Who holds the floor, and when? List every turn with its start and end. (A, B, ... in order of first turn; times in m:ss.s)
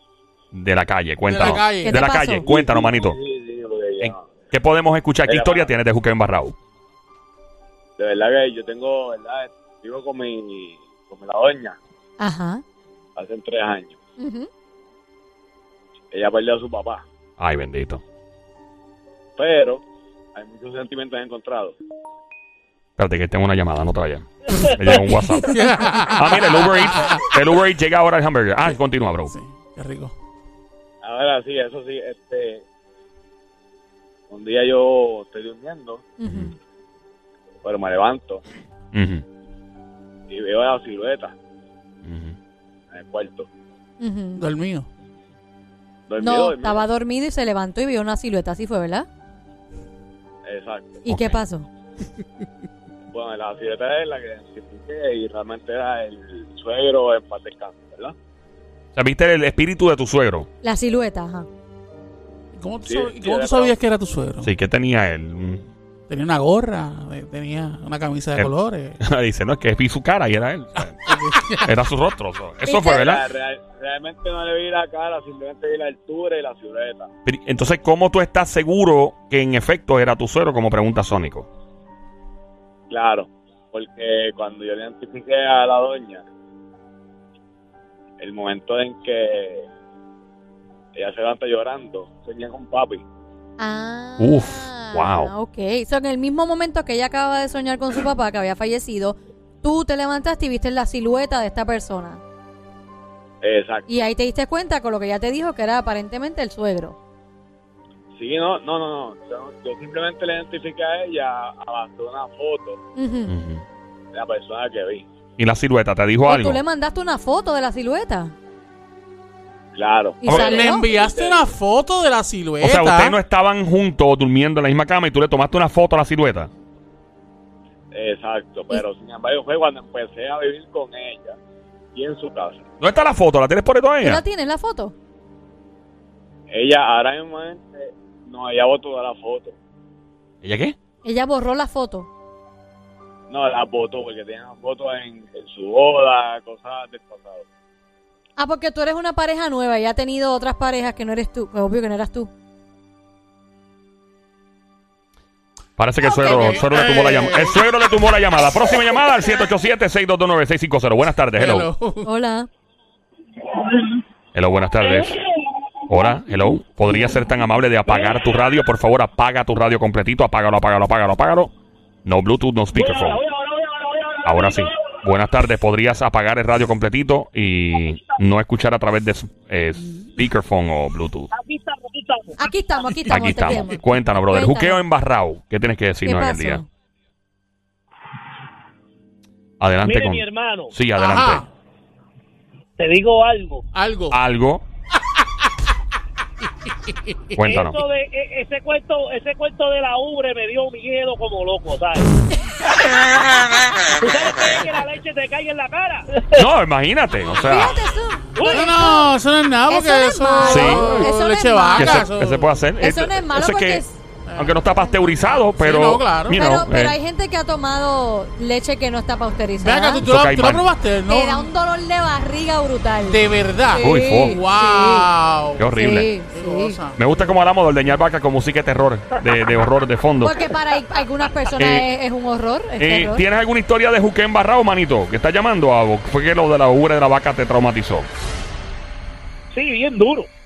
0:00.5-0:03.2 A
0:01.3-0:02.0 B
0:01.5-0:02.4 C
0:02.4-0:04.3 D
0:04.0-0:06.5 A
0:05.2-0:05.7 D
0:08.0-0:11.8 D
0:12.2-0:12.6 C
0:13.2-0:14.0 D
0:14.2-0:14.5 C
0:16.1-0:17.0 D
0:17.4-0:18.0 A
0:19.4-0:19.8 D
0:20.3-0:21.8 D
0:23.0-0:29.3 A
0:25.4-0:27.2 B
0:29.3-0:30.1 B
0:31.0-0:32.6 D
0:34.3-0:36.1 D
0:36.2-0:36.5 C
0:36.2-0:36.5 A
0:37.6-0:38.4 D
0:38.9-0:39.2 A
0:40.3-0:41.3 D
0:42.0-0:42.4 A
0:42.9-0:43.5 D
0:44.0-0:44.5 C
0:44.4-0:44.9 B
0:46.1-0:46.8 D
0:46.2-0:49.1 C
0:50.4-0:51.0 D
0:51.0-0:51.7 C
0:51.1-0:51.4 A
0:53.1-0:58.1 D
0:58.9-1:00.5 A
1:00.6-1:01.5 C
1:02.5-1:04.5 B
1:02.8-1:03.7 D
1:04.4-1:05.7 A
1:06.1-1:09.0 B
1:08.4-1:11.1 A
1:10.8-1:11.7 B
1:11.6-1:13.2 A
1:12.6-1:13.1 C
1:12.9-1:17.1 D
1:17.2-1:21.5 A
1:22.9-1:26.2 D
1:28.2-1:29.7 D
1:30.9-1:33.0 D
1:33.6-1:42.2 C
1:34.2-1:35.3 A
1:43.4-1:43.9 D
1:43.9-1:47.0 C
1:48.1-1:52.8 D
1:53.0-1:53.3 C
1:53.3-1:53.6 A
1:54.1-1:55.1 D
1:55.4-1:56.6 A
1:56.2-1:58.3 C
1:59.7-2:01.5 D
2:00.2-2:00.8 C
2:00.2-2:03.2 B
2:02.6-2:06.5 A
2:07.9-2:11.4 D
2:11.9-2:12.6 D
2:12.8-2:14.2 A
2:14.0-2:14.9 C
2:16.5-2:19.6 D
2:20.4-2:20.7 A
2:21.0-2:22.1 C
2:23.3-2:27.4 D
2:28.4-2:32.3 C
2:35.8-2:41.7 A
2:36.0-2:36.6 C
2:36.0-2:37.6 B
2:41.4-2:42.1 B
2:42.0-2:42.5 C
2:44.3-2:45.2 A
2:45.9-2:51.5 A
2:52.0-2:53.2 A
2:54.2-3:01.3 A
3:01.3-3:02.4 E
3:02.4-3:04.8 C
3:03.0-3:03.5 E
3:03.1-3:06.6 A
3:06.0-3:06.7 C
3:09.6-3:11.4 A
3:09.8-3:10.7 E
3:11.0-3:11.5 B
3:12.8-3:13.6 E
3:13.7-3:14.2 B
3:14.1-3:14.6 A
3:16.9-3:17.4 B
3:17.4-3:17.8 A
3:17.4-3:22.1 E
3:24.0-3:26.4 E
3:26.3-3:27.8 A
3:27.4-3:29.1 C
3:28.4-3:28.7 E
3:28.4-3:32.5 B
3:29.7-3:32.1 C
3:30.4-3:31.1 A
3:31.8-3:33.8 A
3:32.8-3:34.0 C
3:34.3-3:34.6 B
3:34.4-3:37.0 A
3:35.6-3:36.4 B
3:36.3-3:40.0 C
3:39.6-3:41.5 B
3:40.0-3:40.6 A
3:41.1-3:43.2 C
3:43.1-3:45.7 B
3:43.7-3:45.1 C
3:43.8-3:44.4 A
3:45.6-3:46.1 A
3:45.7-3:46.8 C
3:46.3-3:47.1 B
3:47.0-3:50.4 A
3:50.2-3:53.2 C
3:51.6-3:51.9 A
3:52.8-3:58.1 A
3:59.5-4:00.3 E